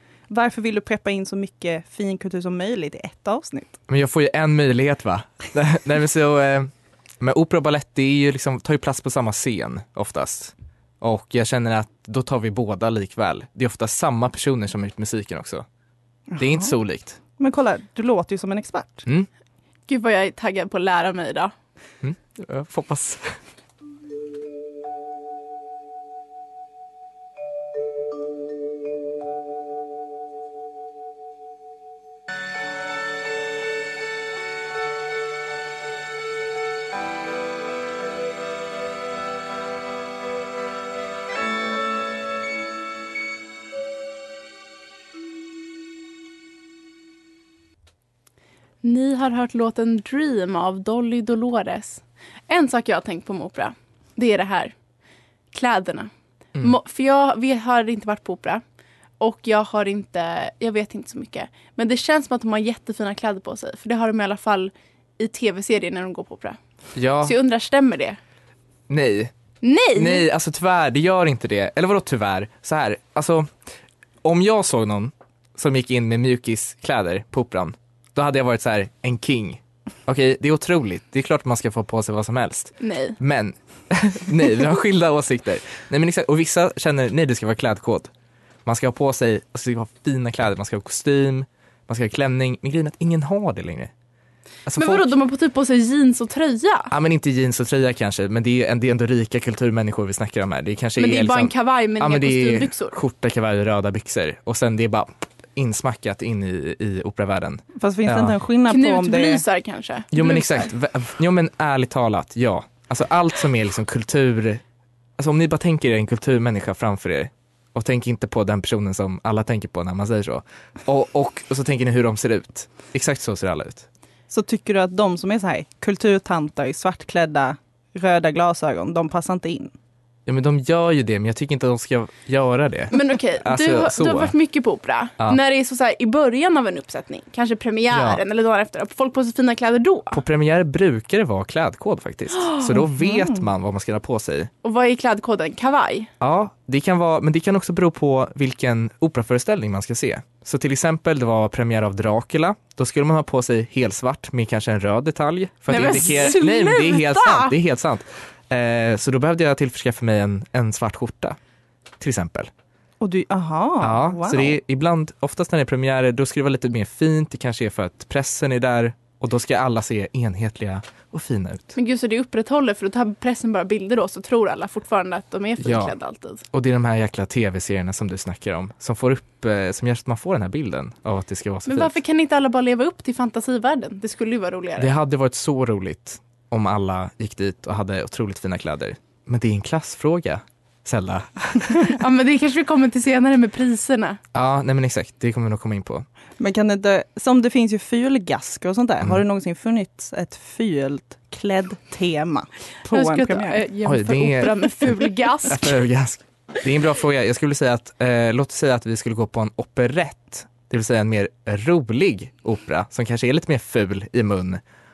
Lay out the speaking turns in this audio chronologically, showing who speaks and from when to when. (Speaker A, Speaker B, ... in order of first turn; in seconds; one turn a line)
Speaker A: 0.3-3.8
Speaker B: 3.9-15.7
Speaker A: 16.4-16.7
Speaker B: 16.4-17.2
Speaker A: 17.4-19.1
Speaker C: 19.9-21.5
Speaker B: 22.0-23.4
Speaker C: 48.8-54.7
Speaker C: 55.5-58.6
Speaker C: 59.2-66.6
Speaker B: 67.0-67.4
Speaker C: 67.2-68.2
Speaker B: 68.9-69.3
Speaker C: 69.6-70.3
Speaker B: 70.0-73.5
Speaker B: 74.2-88.1
Speaker C: 82.8-83.2
Speaker B: 88.7-93.9
Speaker B: 94.7-95.1
Speaker C: 94.8-96.9
Speaker B: 96.9-108.4
Speaker C: 101.0-103.0
Speaker A: 107.8-109.4
Speaker C: 108.7-110.7
Speaker B: 110.1-114.6
Speaker B: 115.2-123.9
Speaker A: 124.3-129.7
Speaker B: 130.3-134.3
Speaker C: 132.9-140.2
Speaker B: 137.9-138.2
Speaker B: 140.1-144.5
Speaker A: 142.7-143.4
Speaker C: 144.6-146.1
Speaker B: 146.2-161.4
Speaker C: 155.7-157.5
Speaker B: 162.0-162.5
Speaker A: 163.0-164.6
Speaker B: 163.8-171.8
Speaker C: 171.8-176.4
Speaker B: 175.6-175.9
Speaker B: 176.5-181.9
Speaker C: 181.7-184.9
Speaker B: 184.8-192.0
Speaker C: 191.9-194.2
Speaker B: 194.3-196.1
Speaker A: 196.4-203.6
Speaker C: 202.9-205.8
Speaker B: 203.9-214.6